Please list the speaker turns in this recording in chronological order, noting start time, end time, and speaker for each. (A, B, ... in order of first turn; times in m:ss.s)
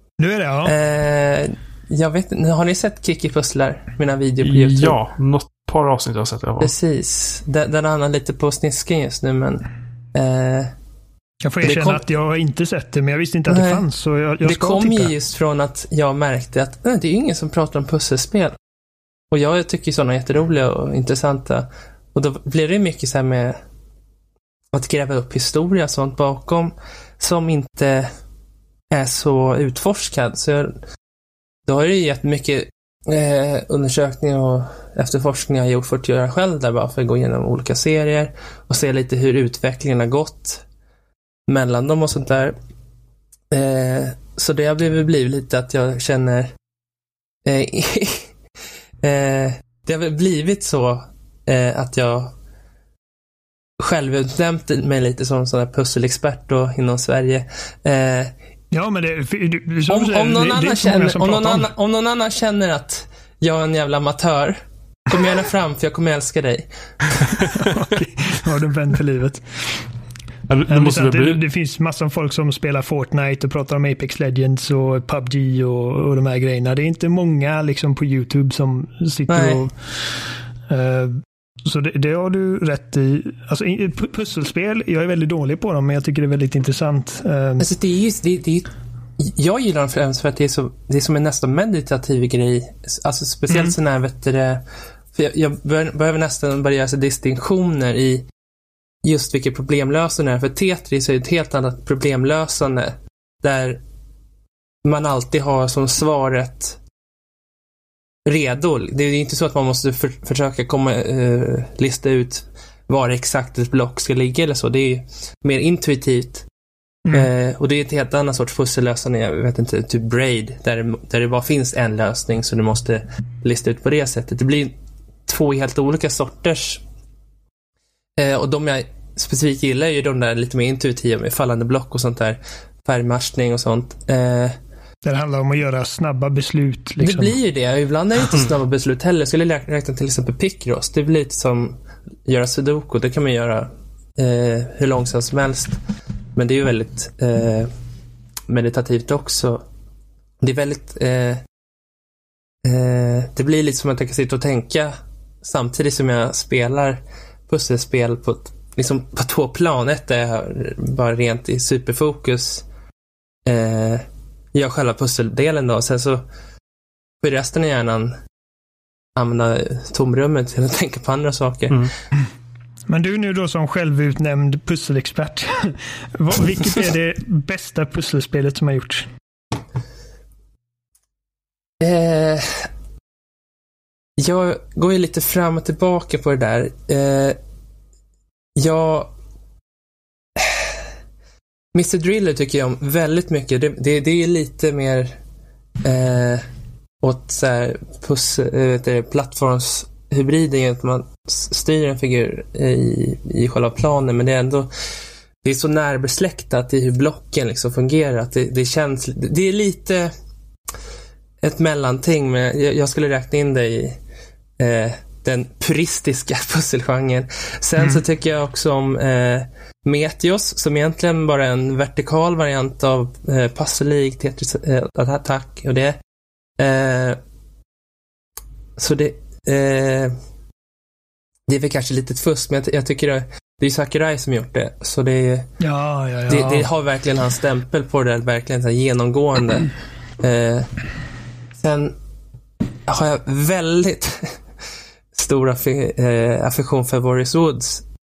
0:00.2-0:00.7 A
0:00.6-0:05.0 B
0:04.4-0:06.7 C
0:06.6-0:10.7 B
0:11.4-0:15.1 A
0:11.6-0:12.0 B
0:13.5-0:13.8 B
0:14.4-0:18.6 B
0:19.3-0:23.6 B
0:24.7-0:28.1 B
0:28.9-0:30.7 B
0:31.7-0:40.6 B
0:41.5-0:42.6 B
0:43.5-0:46.5 B
0:47.4-0:48.3 B
0:49.0-0:52.3 B
0:53.8-0:58.3 B
0:58.7-1:01.7 A
0:59.9-1:07.2 B
1:07.5-1:09.8 A
1:10.5-1:11.4 C
1:10.7-1:27.7 A
1:19.3-1:19.6 B
1:27.6-1:38.2 B
1:39.0-1:43.8 B
1:44.8-1:46.8 B
1:48.2-1:56.4 B
1:57.1-2:04.7 B
2:05.3-2:06.8 B
2:08.2-2:14.6 B
2:15.0-2:17.4 A
2:17.0-2:25.8 B
2:26.4-2:27.7 B
2:28.5-2:29.6 B
2:30.4-2:31.4 B
2:32.6-2:42.6 B
2:43.4-2:46.2 B
2:47.2-2:48.2 B
2:49.2-2:51.9 B
2:52.9-2:59.1 A
3:01.8-3:02.7 B
3:04.2-3:07.4 B
3:08.6-3:09.1 B
3:10.4-3:10.9 B
3:11.7-3:15.2 B
3:15.8-3:16.4 B
3:17.0-3:24.7 B
3:25.4-3:30.1 B
3:31.4-3:34.0 B
3:34.6-3:46.0 B
3:46.6-3:47.2 B
3:48.8-3:50.2 B
3:51.5-3:55.5 B
3:55.6-3:56.7 A
3:56.3-4:00.7 B
4:01.6-4:02.0 B
4:02.9-4:04.4 B
4:05.2-4:07.8 B